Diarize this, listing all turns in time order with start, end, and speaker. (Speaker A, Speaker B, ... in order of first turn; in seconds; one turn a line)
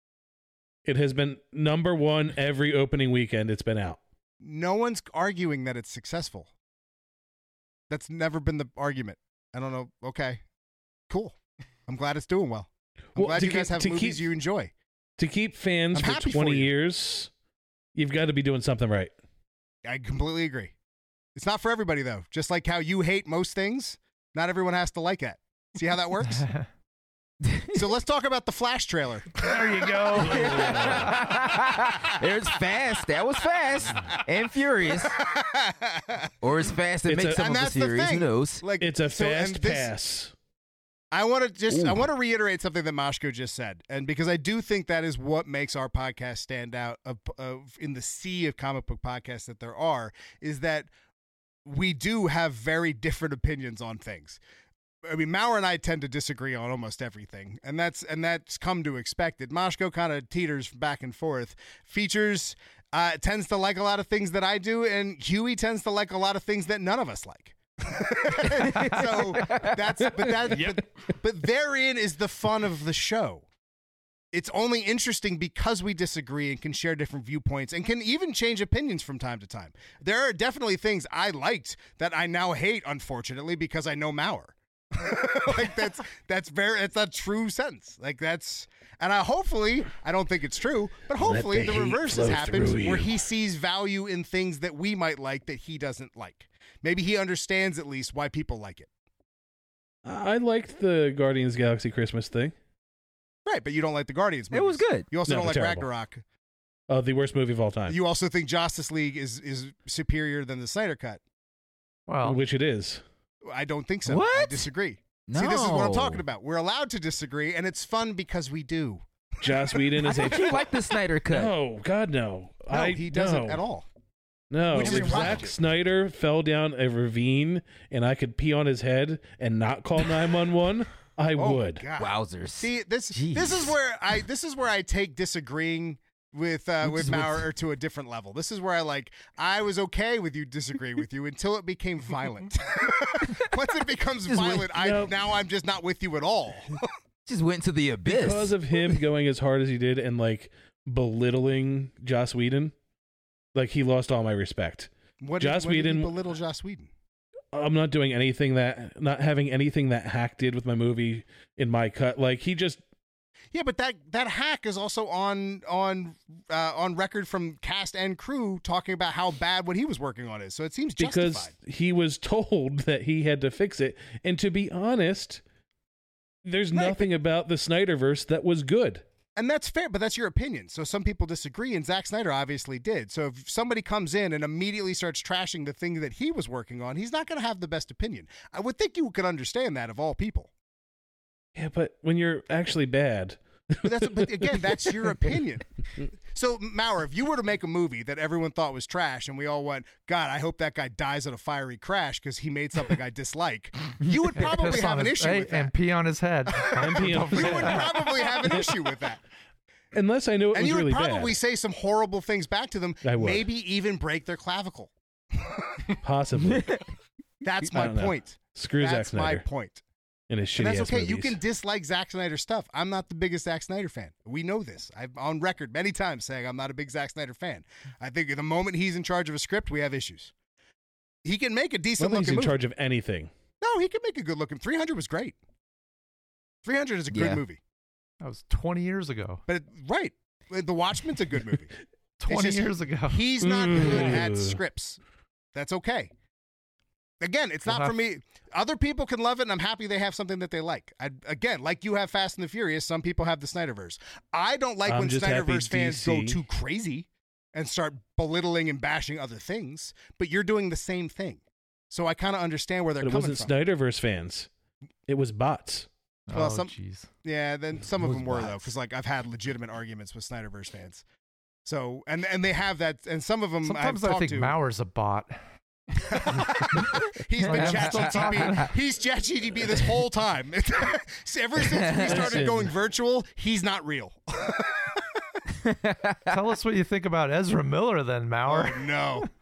Speaker A: 0.8-4.0
Speaker B: 4.4-6.5
Speaker B: 7.9-10.4
Speaker B: 11.1-11.3
Speaker B: 11.9-14.7
Speaker A: 13.1-14.2
Speaker A: 15.2-17.3
Speaker B: 15.9-16.7
Speaker A: 17.9-19.1
Speaker B: 19.8-20.7
Speaker B: 21.3-26.5
Speaker C: 26.2-26.6
Speaker D: 27.4-27.7
Speaker B: 27.7-29.4
Speaker E: 29.4-31.6
Speaker D: 30.1-35.1
Speaker A: 30.2-31.2
Speaker B: 35.2-36.3
Speaker D: 36.4-38.6
Speaker A: 37.1-37.4
Speaker B: 37.4-39.9
Speaker A: 38.8-40.3
Speaker B: 41.1-50.9
Speaker D: 41.7-42.0
Speaker B: 51.6-54.4
Speaker B: 55.0-73.5
Speaker D: 68.3-70.3
Speaker E: 70.5-70.8
Speaker B: 74.3-98.9
Speaker A: 91.2-93.1
Speaker A: 100.0-102.5
Speaker B: 103.5-106.2
Speaker D: 104.5-105.1
Speaker A: 105.3-105.8
Speaker A: 106.9-108.0
Speaker B: 107.9-111.2
Speaker C: 112.1-112.4
Speaker A: 112.2-113.0
Speaker B: 113.4-119.0
Speaker D: 114.0-114.7
Speaker D: 115.3-116.2
Speaker A: 119.4-120.7
Speaker D: 120.0-121.5
Speaker A: 121.3-123.6
Speaker B: 122.7-123.8
Speaker A: 124.5-131.8
Speaker B: 124.7-125.5
Speaker D: 124.8-125.4
Speaker B: 131.3-146.8
Speaker D: 132.0-133.7
Speaker D: 136.8-137.5
Speaker D: 143.2-143.5
Speaker D: 144.3-144.7
Speaker A: 144.7-145.1
Speaker D: 147.2-148.9
Speaker A: 148.1-152.7
Speaker A: 153.5-156.1
Speaker B: 155.2-156.9
Speaker A: 157.5-162.8
Speaker B: 163.5-171.5
Speaker A: 171.0-175.4
Speaker A: 176.4-179.0
Speaker B: 176.7-177.1
Speaker B: 179.3-190.5
Speaker A: 191.5-194.6
Speaker B: 193.8-195.7
Speaker B: 196.3-205.7
Speaker C: 204.3-208.5
Speaker B: 206.5-209.2
Speaker A: 206.7-208.7
Speaker A: 209.9-211.3
Speaker B: 210.5-215.9
Speaker A: 213.0-213.4
Speaker A: 216.0-216.8
Speaker B: 217.4-219.8
Speaker A: 217.6-219.4
Speaker A: 220.3-221.4
Speaker B: 220.6-230.3
Speaker B: 231.2-232.6
Speaker A: 232.0-233.3
Speaker B: 233.6-235.3
Speaker B: 236.6-237.6
Speaker D: 237.1-237.4
Speaker C: 238.2-239.4
Speaker B: 239.5-241.7
Speaker C: 242.2-244.2
Speaker B: 242.3-245.0
Speaker A: 243.4-244.6
Speaker B: 245.5-246.1
Speaker B: 247.2-263.5
Speaker C: 247.7-247.9
Speaker A: 254.8-256.4
Speaker A: 263.0-264.5
Speaker A: 265.1-265.9
Speaker C: 266.3-267.1
Speaker B: 266.3-271.0
Speaker D: 267.9-268.7
Speaker B: 271.6-274.5
Speaker C: 273.6-275.4
Speaker B: 276.0-285.0
Speaker C: 276.2-276.8
Speaker C: 277.4-278.7
Speaker D: 277.5-278.6
Speaker D: 281.6-282.4
Speaker A: 282.0-282.7
Speaker D: 285.6-286.4
Speaker C: 286.3-289.3
Speaker B: 288.5-289.3